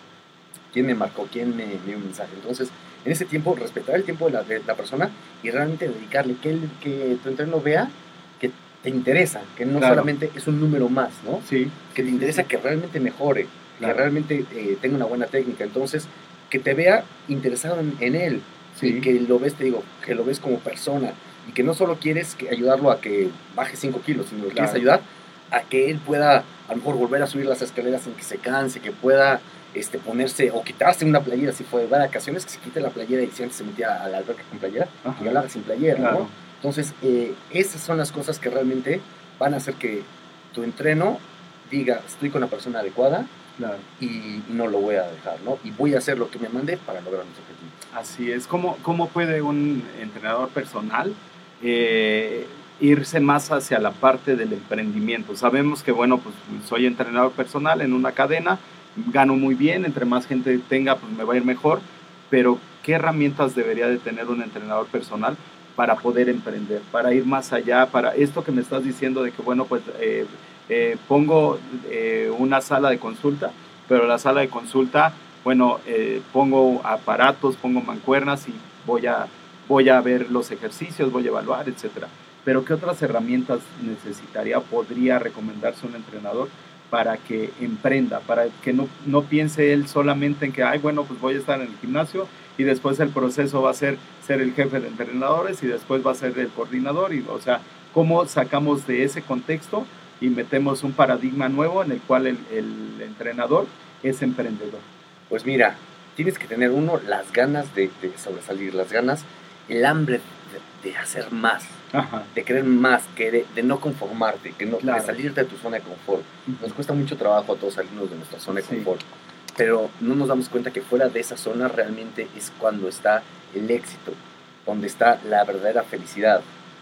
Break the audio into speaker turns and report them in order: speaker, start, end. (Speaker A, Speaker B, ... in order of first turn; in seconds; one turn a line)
Speaker A: 0.7-43.3
Speaker B: 9.8-10.1
Speaker B: 11.4-12.4
Speaker B: 18.7-19.1
Speaker B: 24.5-24.8
Speaker B: 35.0-35.4
Speaker B: 36.0-36.3
Speaker B: 43.6-43.9
Speaker A: 44.0-47.8
Speaker B: 47.9-104.8
Speaker A: 105.3-119.0
Speaker B: 111.9-112.3
Speaker B: 114.8-115.1
Speaker B: 118.6-118.9
Speaker A: 119.6-126.5